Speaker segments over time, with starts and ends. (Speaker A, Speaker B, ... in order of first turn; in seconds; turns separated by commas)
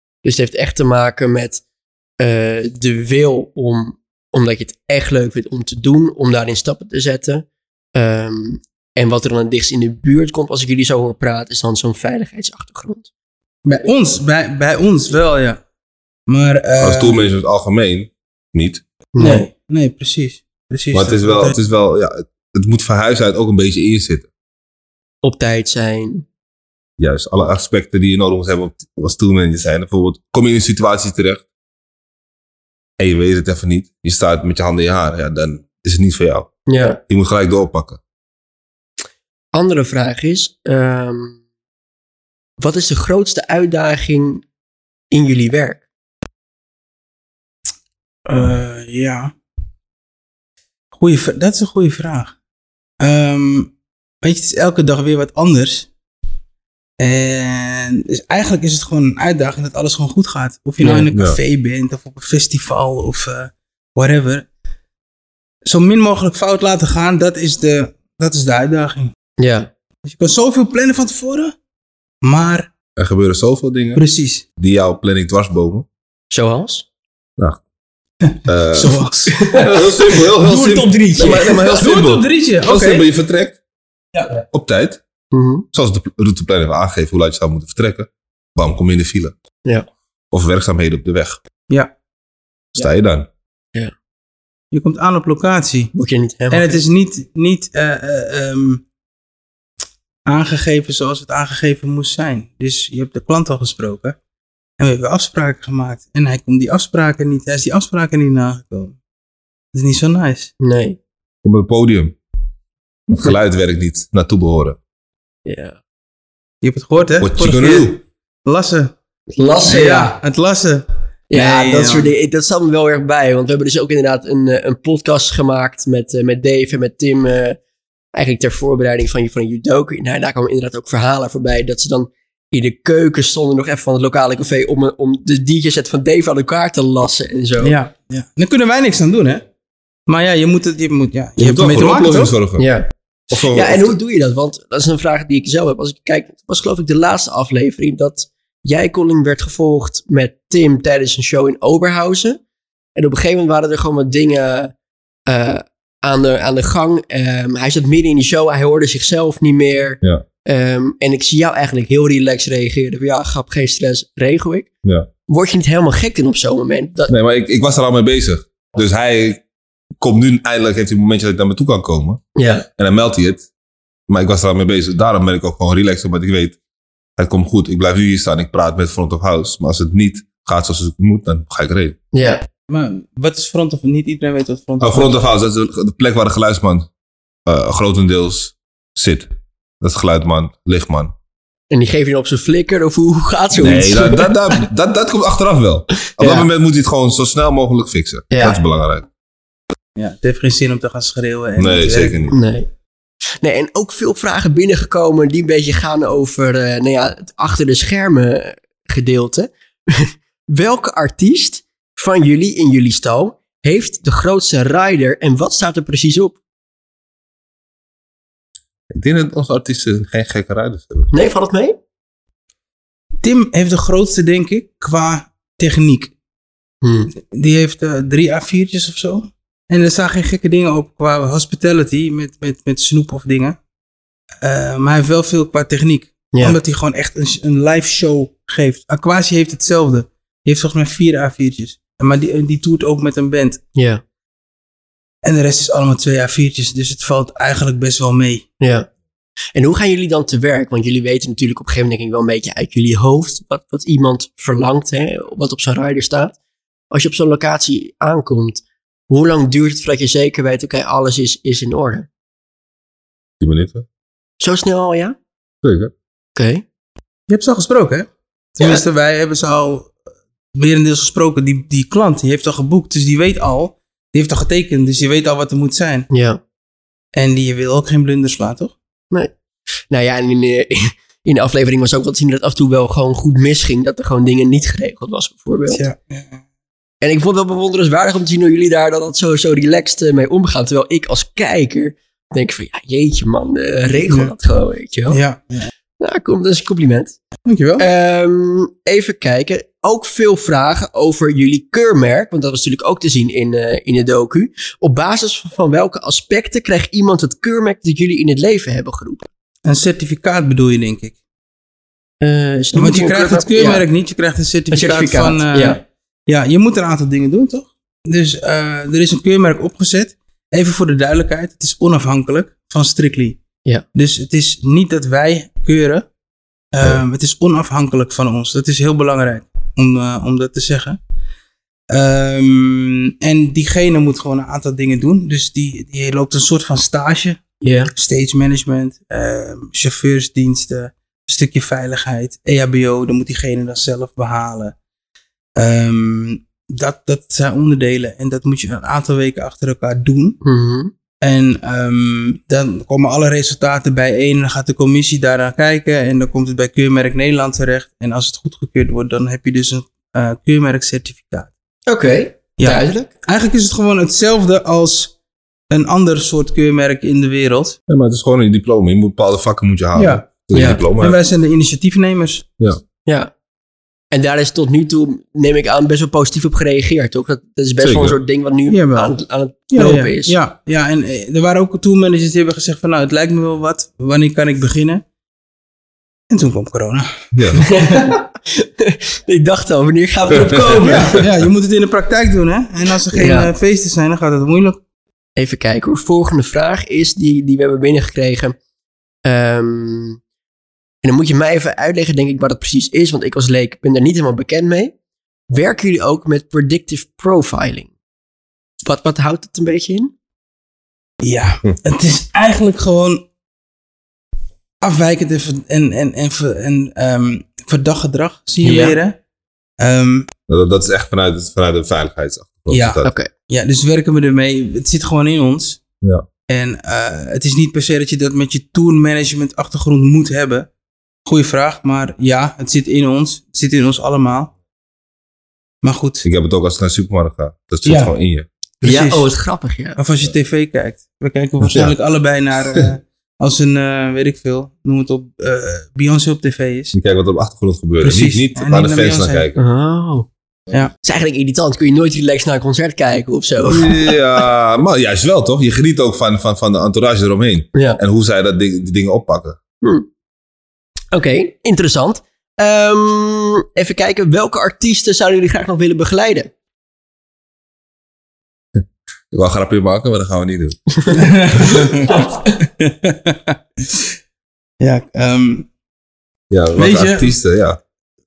Speaker A: 0.2-1.6, Speaker A: 2.2-13.1, Speaker B: 13.6-15.6, Speaker B: 16.3-17.2, Speaker C: 16.8-18.8, Speaker A: 19.1-19.5, Speaker B: 19.2-21.6, Speaker C: 20.9-24.3, Speaker A: 25.2-26.3, Speaker C: 27.0-31.4, Speaker C: 33.0-36.5, Speaker A: 36.7-37.0, Speaker C: 37.1-38.0, Speaker A: 39.5-41.4, Speaker A: 42.6-44.4, Speaker A: 45.1-45.8, Speaker B: 48.3-49.3, Speaker B: 50.9-52.3, Speaker B: 53.0-53.7, Speaker B: 54.2-55.9, Speaker B: 57.0-64.5, Speaker A: 60.8-61.1, Speaker C: 61.1-61.4, Speaker B: 65.6-69.1, Speaker A: 69.4-69.7, Speaker B: 70.0-71.5, Speaker B: 72.2-72.7, Speaker C: 73.0-74.0, Speaker B: 74.0-74.4, Speaker C: 74.6-75.9, Speaker A: 76.3-76.8, Speaker B: 78.2-79.4, Speaker C: 78.4-83.6, Speaker A: 79.3-81.8, Speaker B: 81.7-83.0, Speaker C: 84.5-85.0, Speaker A: 85.3-85.7, Speaker C: 85.7-89.3, Speaker C: 90.3-91.4, Speaker C: 92.8-93.3, Speaker B: 94.7-95.9, Speaker A: 95.9-96.8, Speaker B: 96.5-98.8, Speaker B: 100.3-104.2, Speaker B: 104.8-109.0, Speaker B: 109.7-110.5, Speaker A: 110.6-111.0, Speaker C: 111.4-112.2, Speaker C: 113.1-114.8, Speaker A: 115.5-115.8, Speaker B: 116.6-118.9, Speaker C: 117.2-118.0, Speaker A: 119.3-120.1, Speaker B: 119.6-122.1, Speaker A: 121.3-127.6, Speaker A: 128.1-137.7, Speaker B: 137.6-139.4, Speaker B: 140.1-142.3, Speaker C: 141.4-142.7, Speaker A: 142.6-152.4, Speaker C: 143.3-144.0, Speaker A: 152.9-154.7, Speaker A: 155.3-164.7, Speaker A: 165.3-167.1, Speaker C: 167.1-169.4, Speaker C: 170.0-172.2, Speaker A: 172.3-172.7, Speaker C: 172.8-173.5, Speaker C: 174.1-176.6, Speaker C: 177.2-182.0, Speaker A: 182.1-182.4, Speaker B: 182.7-185.2, Speaker C: 184.8-186.9, Speaker C: 187.4-189.3, Speaker C: 189.8-191.1, Speaker A: 191.7-194.6, Speaker C: 193.6-199.1, Speaker A: 196.2-196.5, Speaker A: 198.3-198.6, Speaker B: 199.9-202.2, Speaker C: 201.6-202.3, Speaker A: 202.3-202.7, Speaker A: 203.4-216.4, Speaker C: 218.9-221.1, Speaker A: 221.1-221.8, Speaker B: 223.2-226.1, Speaker A: 226.8-227.1, Speaker B: 227.2-233.6, Speaker B: 234.4-243.6, Speaker A: 243.8-244.0, Speaker B: 245.2-248.4, Speaker A: 248.6-248.9, Speaker A: 249.5-256.4, Speaker A: 256.9-262.1, Speaker C: 263.4-263.9, Speaker A: 264.4-265.1, Speaker C: 265.6-265.9, Speaker A: 266.4-266.6, Speaker B: 267.3-269.9, Speaker B: 270.5-276.1, Speaker A: 276.1-276.4, Speaker B: 277.1-278.7, Speaker A: 279.9-285.8, Speaker B: 285.7-286.4, Speaker A: 287.0-295.2, Speaker B: 294.1-294.3, Speaker B: 295.1-295.7, Speaker A: 296.0-297.1, Speaker B: 297.4-297.9, Speaker A: 297.8-309.3, Speaker B: 309.6-311.1, Speaker A: 312.2-313.8, Speaker B: 312.8-323.4, Speaker A: 314.7-315.8, Speaker B: 323.9-326.1, Speaker B: 326.7-331.0, Speaker B: 331.9-337.4, Speaker A: 337.6-337.9, Speaker B: 337.9-344.7, Speaker B: 345.6-350.4, Speaker A: 350.4-350.9, Speaker B: 351.2-361.5, Speaker A: 361.9-363.1, Speaker B: 362.6-365.1, Speaker B: 365.7-367.8, Speaker C: 367.9-371.2, Speaker B: 369.9-370.2, Speaker A: 370.5-370.8, Speaker B: 370.9-372.4, Speaker A: 373.1-373.3, Speaker A: 374.1-380.4, Speaker C: 377.8-378.2, Speaker B: 378.7-379.1, Speaker B: 379.7-385.0, Speaker B: 386.3-388.1, Speaker C: 387.3-387.6, Speaker A: 387.6-391.2, Speaker C: 390.4-391.2, Speaker B: 390.8-394.8, Speaker A: 393.1-393.5, Speaker A: 395.4-398.6, Speaker A: 399.2-400.2, Speaker A: 401.0-404.9, Speaker A: 405.5-407.9, Speaker A: 408.8-410.1, Speaker B: 411.2-413.2, Speaker B: 414.8-419.2, Speaker A: 418.6-419.0, Speaker B: 419.8-420.3, Speaker C: 420.5-423.1, Speaker B: 422.7-425.8, Speaker A: 423.0-423.3, Speaker B: 426.5-430.7, Speaker B: 431.2-434.5, Speaker B: 435.8-436.2, Speaker C: 436.2-438.5, Speaker B: 437.8-438.1, Speaker B: 438.8-439.2, Speaker A: 438.8-440.0, Speaker B: 440.0-446.9, Speaker C: 441.6-441.9, Speaker C: 446.9-449.6, Speaker B: 448.0-449.5, Speaker A: 449.6-450.3, Speaker A: 451.0-454.1, Speaker C: 453.6-459.6, Speaker A: 457.7-458.0, Speaker A: 459.8-460.1, Speaker A: 461.1-466.5, Speaker C: 468.8-470.8, Speaker B: 471.1-474.1, Speaker B: 474.8-475.7, Speaker C: 476.5-477.8, Speaker B: 476.8-477.3